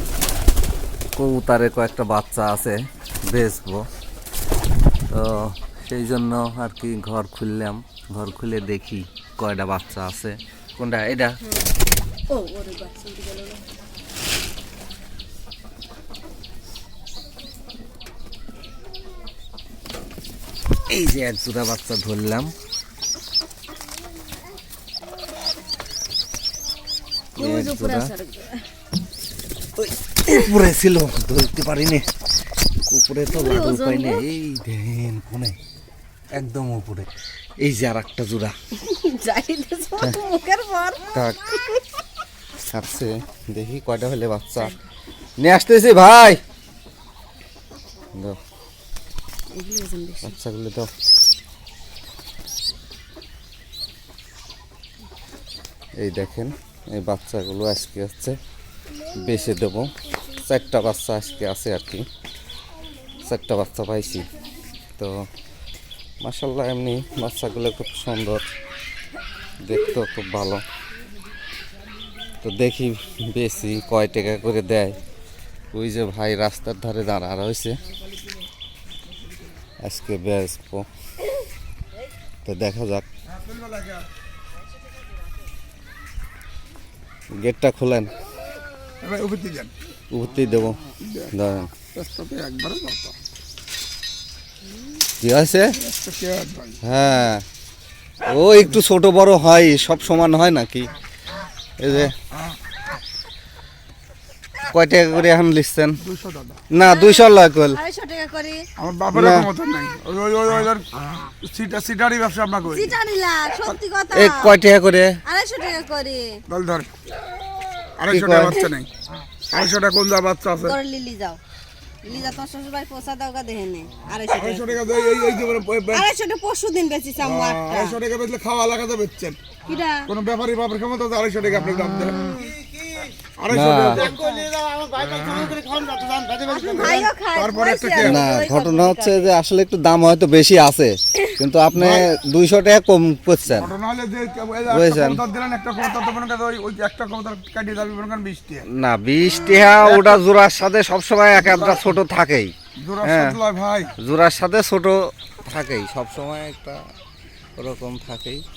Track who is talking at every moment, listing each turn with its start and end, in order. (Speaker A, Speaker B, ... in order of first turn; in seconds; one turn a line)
Speaker A: 1.1-3.9
Speaker A: 5.1-11.4
Speaker B: 11.4-11.7
Speaker B: 12.3-13.6
Speaker A: 20.9-22.5
Speaker A: 27.4-28.1
Speaker B: 27.4-28.6
Speaker A: 29.8-32.0
Speaker A: 32.9-35.6
Speaker B: 33.3-34.2
Speaker A: 36.3-37.1
Speaker A: 37.6-38.5
Speaker B: 38.8-41.8
Speaker A: 41.1-41.4
Speaker A: 42.7-44.7
Speaker A: 45.4-46.4
Speaker B: 49.5-50.4
Speaker A: 50.2-50.9
Speaker A: 56.0-58.4
Speaker A: 59.2-62.0
Speaker A: 63.2-64.3
Speaker A: 65.0-65.2
Speaker A: 66.2-68.5
Speaker A: 69.6-70.6
Speaker A: 72.4-75.0
Speaker A: 75.7-77.8
Speaker A: 79.8-80.9
Speaker A: 82.4-83.0
Speaker C: 83.3-84.0
Speaker A: 87.3-88.1
Speaker C: 89.0-89.7
Speaker A: 90.1-90.8
Speaker C: 91.0-91.3
Speaker A: 91.3-91.7
Speaker C: 91.9-93.2
Speaker A: 95.2-95.8
Speaker C: 95.7-96.8
Speaker A: 96.8-97.4
Speaker A: 98.2-100.9
Speaker A: 101.8-102.1
Speaker A: 104.7-106.0
Speaker C: 106.0-106.6
Speaker A: 106.7-107.8
Speaker B: 106.8-108.7
Speaker C: 108.8-112.9
Speaker A: 109.1-109.5
Speaker B: 112.7-114.6
Speaker A: 114.1-115.2
Speaker B: 115.2-116.4
Speaker C: 116.5-116.9
Speaker C: 118.0-118.9
Speaker A: 118.1-118.6
Speaker C: 119.5-120.8
Speaker B: 120.6-121.4
Speaker B: 122.0-125.0
Speaker C: 124.3-126.1
Speaker B: 125.9-128.0
Speaker C: 127.2-129.4
Speaker B: 129.6-130.1
Speaker C: 130.1-132.2
Speaker B: 132.1-132.6
Speaker C: 133.4-134.3
Speaker A: 133.5-134.1
Speaker B: 134.1-134.5
Speaker C: 135.0-138.2
Speaker B: 136.4-139.3
Speaker A: 138.0-143.7
Speaker C: 141.7-142.1
Speaker C: 143.5-148.7
Speaker A: 144.7-145.2
Speaker A: 148.7-153.4
Speaker C: 149.8-150.2
Speaker C: 151.3-151.8
Speaker C: 152.8-153.9
Speaker A: 154.0-156.8
Speaker A: 157.6-158.4